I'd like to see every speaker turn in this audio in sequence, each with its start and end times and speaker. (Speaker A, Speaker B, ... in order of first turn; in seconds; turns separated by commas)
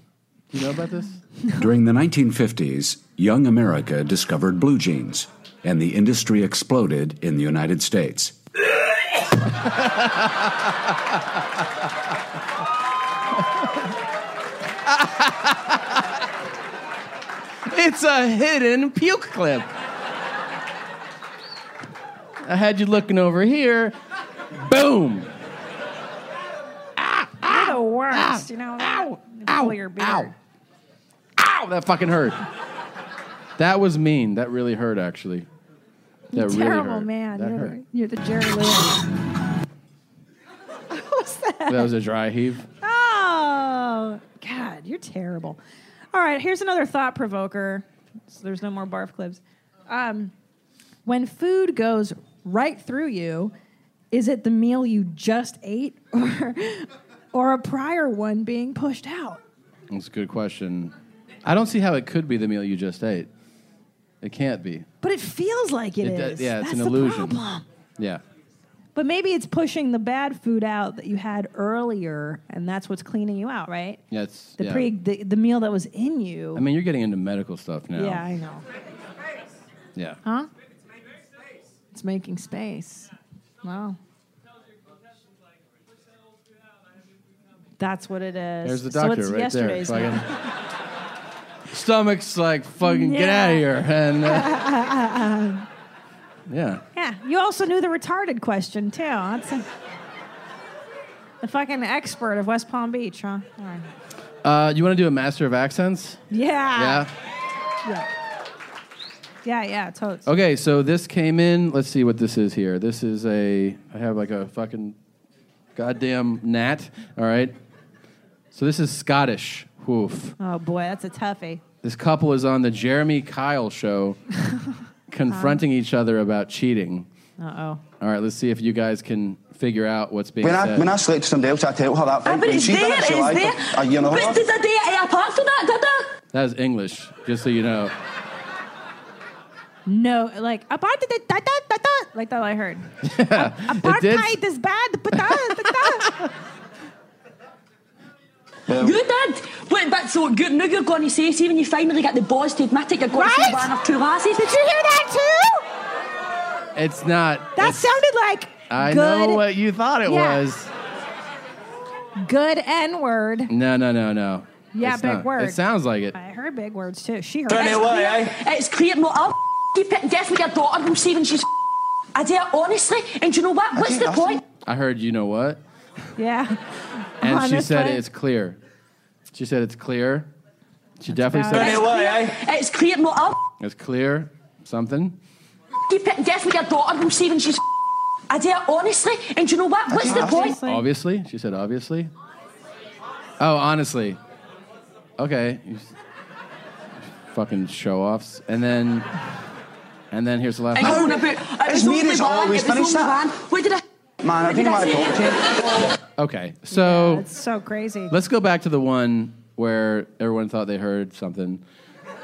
Speaker A: 0.5-1.2, Speaker B: 1.6-8.3, Speaker A: 9.8-10.2, Speaker A: 14.9-15.8, Speaker A: 17.7-19.7, Speaker A: 22.4-23.9, Speaker A: 24.6-25.3, Speaker A: 27.0-30.3, Speaker C: 27.4-30.3, Speaker A: 31.4-32.4, Speaker A: 33.6-35.5, Speaker C: 36.3-39.0, Speaker A: 36.3-37.7, Speaker C: 40.9-41.9, Speaker A: 41.7-42.7, Speaker C: 42.8-45.6, Speaker C: 46.1-50.3, Speaker C: 51.0-53.5, Speaker C: 54.1-59.4, Speaker A: 59.9-60.9, Speaker A: 61.4-63.3, Speaker A: 64.2-64.8, Speaker C: 65.0-67.6, Speaker A: 66.0-67.4, Speaker C: 68.9-74.0, Speaker A: 74.1-74.9, Speaker C: 74.6-76.6, Speaker A: 76.5-78.2, Speaker C: 78.0-78.6, Speaker C: 81.9-83.1, Speaker C: 83.6-84.0, Speaker C: 87.8-90.3, Speaker A: 88.6-90.2, Speaker A: 91.7-94.6, Speaker C: 92.8-93.6, Speaker C: 94.3-95.6, Speaker A: 96.5-96.8, Speaker C: 96.9-99.6, Speaker C: 101.4-103.9, Speaker A: 104.4-106.2, Speaker C: 106.3-107.1, Speaker A: 106.8-107.1, Speaker C: 109.4-110.2, Speaker A: 110.2-114.9, Speaker A: 115.8-117.5, Speaker A: 118.5-120.3, Speaker C: 120.4-121.6, Speaker A: 121.8-124.2, Speaker C: 124.4-124.8, Speaker A: 125.1-127.1, Speaker C: 125.3-125.6, Speaker C: 127.4-127.8, Speaker A: 128.0-130.9, Speaker D: 130.4-134.4, Speaker E: 132.2-136.1, Speaker A: 136.3-137.9, Speaker C: 139.9-146.2, Speaker A: 143.0-144.3, Speaker A: 145.2-146.2, Speaker E: 148.7-154.4, Speaker C: 153.1-153.7, Speaker C: 154.3-155.6, Speaker A: 156.7-158.0, Speaker C: 157.6-159.4, Speaker A: 158.7-160.7, Speaker C: 160.1-160.4, Speaker C: 162.2-163.5, Speaker A: 163.5-166.1, Speaker C: 164.7-165.6, Speaker C: 166.1-167.9, Speaker E: 167.5-171.5, Speaker D: 167.9-168.2, Speaker E: 172.1-174.4, Speaker D: 173.8-174.4, Speaker A: 174.6-175.6, Speaker C: 176.2-178.0, Speaker A: 177.2-178.6, Speaker A: 179.3-180.3, Speaker A: 181.0-181.8, Speaker C: 181.1-181.8, Speaker E: 181.5-183.4, Speaker A: 183.6-185.1, Speaker E: 185.9-187.6, Speaker E: 188.3-190.6, Speaker D: 189.9-190.4, Speaker C: 190.1-190.8, Speaker A: 190.6-192.1, Speaker A: 193.4-194.2, Speaker A: 195.2-195.9, Speaker A: 197.3-199.1, Speaker A: 200.1-201.1, Speaker E: 200.7-203.8, Speaker D: 200.8-203.3, Speaker D: 204.2-205.8, Speaker E: 204.4-205.4, Speaker A: 206.2-207.2, Speaker C: 206.7-208.1, Speaker A: 208.1-211.6